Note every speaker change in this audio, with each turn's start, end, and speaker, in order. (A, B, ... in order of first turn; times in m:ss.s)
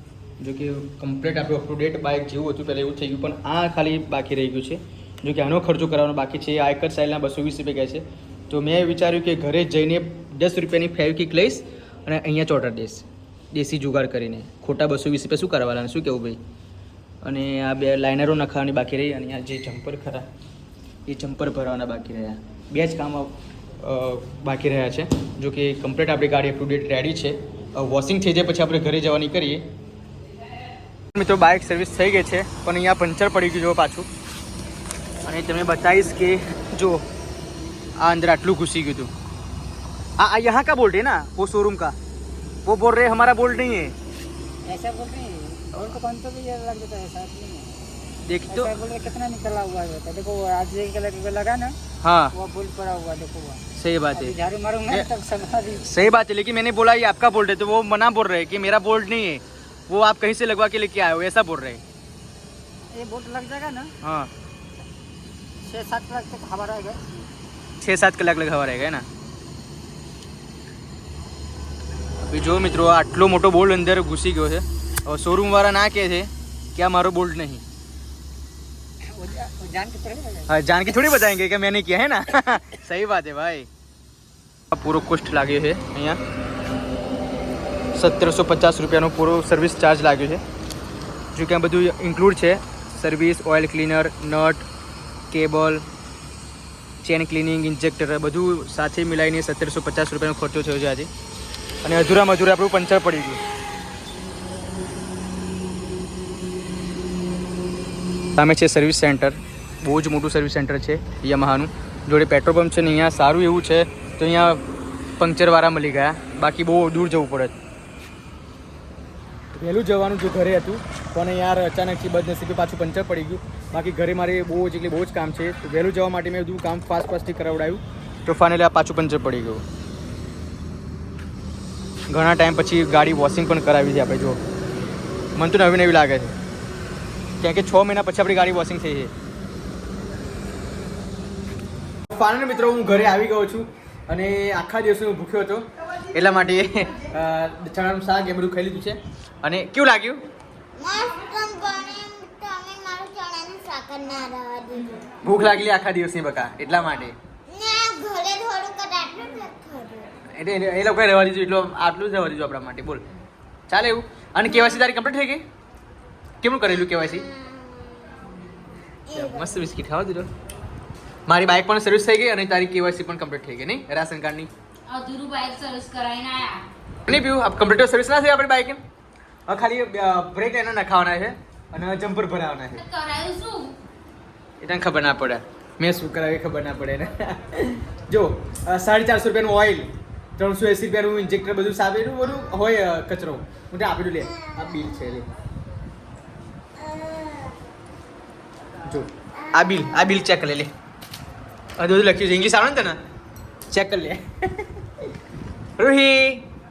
0:00.4-0:16.4 A
0:17.2-0:20.2 A
0:21.0-0:29.6 A
0:31.1-0:34.1 A
0:35.2-0:37.0 A
0:38.0-0:39.1 A
0:40.2-0:41.9 A
0:42.6-0:43.9 A
0:44.7-0:47.7 B
0:48.2-0:48.7 A
0:48.5-0:51.8 B
0:52.0-0:52.3 A
0:52.3-0:53.6 B
0:53.7-0:55.1 A
0:54.1-0:56.0 B
0:55.8-1:01.8 A
1:02.9-1:03.9 B
1:04.0-1:04.3 A
1:05.6-1:07.0 B
1:07.8-1:09.0 A
1:12.2-1:17.6 A
1:19.1-1:20.5 B
1:20.5-1:23.7 A
1:24.7-1:26.2 A
1:27.9-1:30.4 A
1:31.3-1:34.6 A
1:35.3-1:35.8 A
1:37.0-1:41.1 A
1:41.8-1:43.4 A
1:48.4-1:54.6 A
1:55.2-1:57.5 A
1:59.5-2:09.6 A
2:12.1-2:14.4 A
2:15.4-2:16.3 A
2:17.4-2:19.1 A
2:22.1-2:30.2 A
2:30.8-2:35.1 C
2:35.2-2:37.2 A
2:37.5-2:40.1 C
2:40.3-2:43.0 A
2:43.7-2:45.4 A
2:46.4-2:47.2 A
2:47.0-2:48.2 C
2:49.1-2:49.6 C
2:49.1-2:50.3 A
2:51.3-2:54.5 A
2:54.9-2:56.6 D
2:57.1-2:58.8 A
2:59.5-3:02.8 A
3:02.7-3:03.8 D
3:04.6-3:15.3 A
3:14.3-3:15.0 C
3:16.8-3:17.6 C
3:18.8-3:20.7 A
3:19.4-3:20.1 C
3:21.8-3:23.0 A
3:23.7-3:24.7 A
3:25.8-3:26.5 A